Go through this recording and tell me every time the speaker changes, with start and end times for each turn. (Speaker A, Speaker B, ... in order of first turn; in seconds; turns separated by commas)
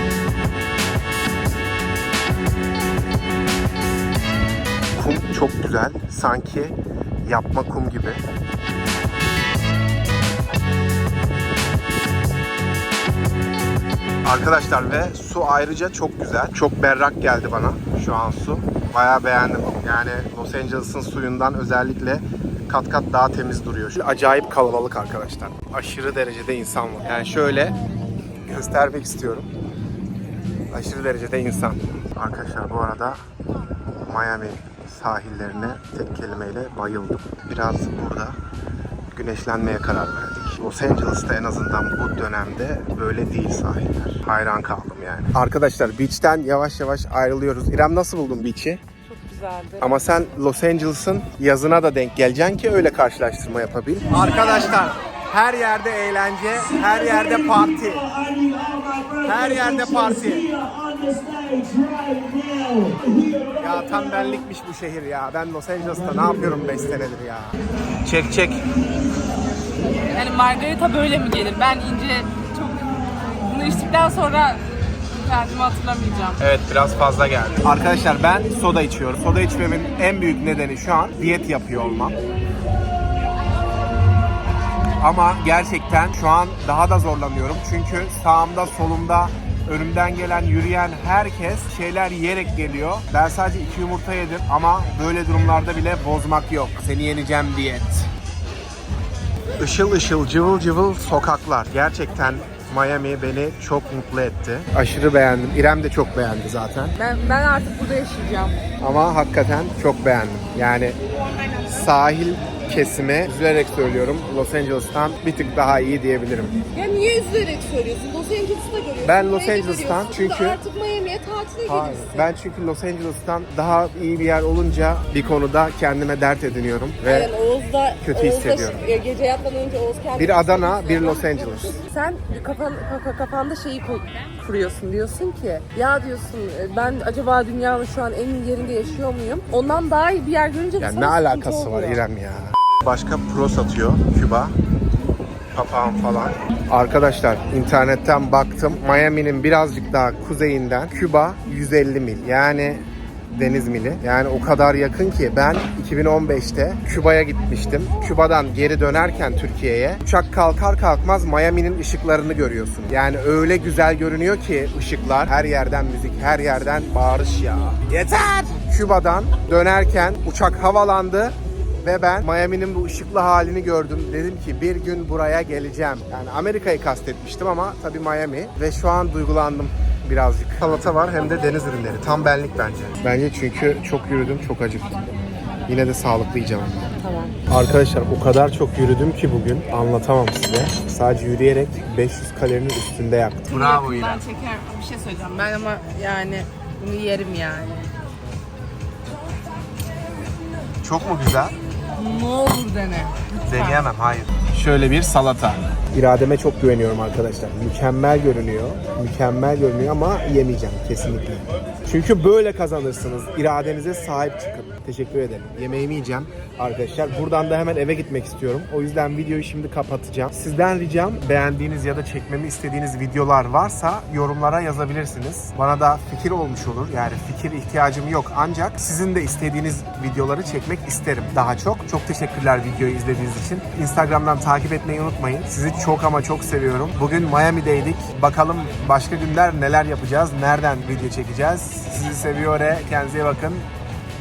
Speaker A: 4.9-8.2, Speaker A: 14.2-27.7, Speaker A: 28.4-29.5, Speaker A: 30.7-33.2, Speaker A: 34.1-38.4, Speaker A: 39.1-48.8, Speaker B: 49.0-50.0, Speaker A: 49.8-58.2, Speaker A: 59.1-60.6, Speaker B: 61.5-63.2, Speaker A: 63.5-68.6, Speaker B: 70.1-76.4, Speaker A: 76.4-82.2, Speaker A: 85.0-98.1, Speaker A: 99.6-106.9, Speaker B: 107.0-108.6, Speaker A: 108.8-111.0, Speaker A: 111.7-116.5, Speaker B: 116.7-122.3, Speaker A: 119.0-120.6, Speaker A: 121.7-127.3, Speaker B: 127.0-142.0, Speaker A: 128.0-128.8, Speaker A: 130.2-131.8, Speaker A: 140.8-144.5, Speaker A: 145.5-185.0, Speaker A: 185.7-186.9, Speaker B: 187.0-187.4, Speaker A: 187.5-194.2, Speaker B: 193.5-197.9, Speaker A: 200.8-201.6, Speaker B: 201.9-203.9, Speaker A: 203.5-243.7